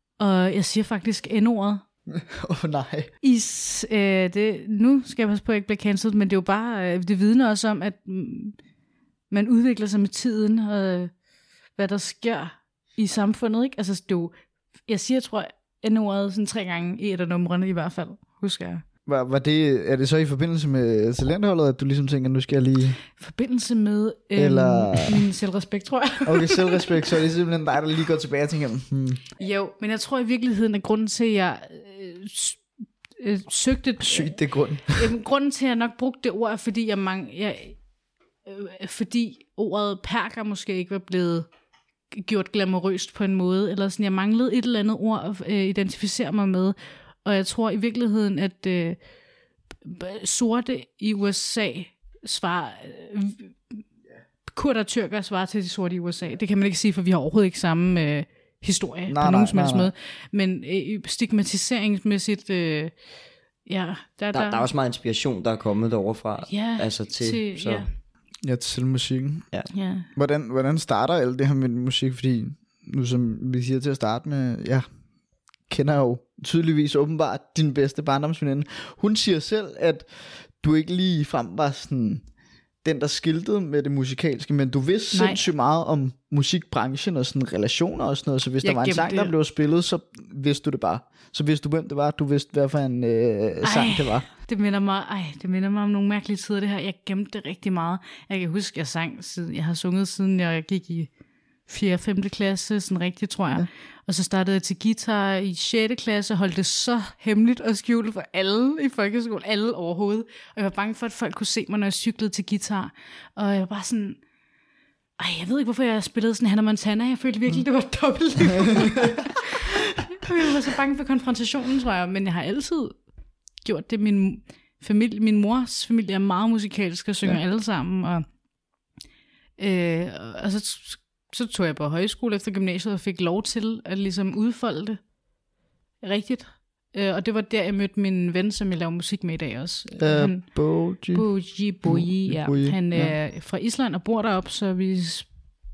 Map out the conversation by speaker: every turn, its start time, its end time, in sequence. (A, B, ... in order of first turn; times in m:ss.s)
0:00.2-0:01.8 A
0:02.1-0:03.1 B
0:03.2-0:08.6 A
0:09.3-0:11.1 A
0:11.7-0:18.8 A
0:19.1-0:23.0 B
0:23.2-0:26.9 A
0:24.4-0:25.2 B
0:26.2-0:29.2 B
0:29.4-0:37.8 A
0:34.0-0:35.0 B
0:38.4-0:41.5 A
0:42.1-0:49.0 A
0:49.8-0:53.9 A
0:54.4-1:03.0 A
0:59.1-0:59.9 B
1:03.6-1:04.7 A
1:04.3-1:07.9 C
1:06.5-1:07.9 A
1:08.4-1:14.9 B
1:09.7-1:10.1 A
1:15.6-1:22.3 B
1:22.8-1:34.3 B
1:25.1-1:25.4 A
1:28.6-1:29.3 A
1:33.6-1:41.1 A
1:41.7-1:54.2 A
1:55.2-2:08.4 A
2:09.6-2:15.1 A
2:16.0-2:25.4 A
2:19.9-2:23.2 B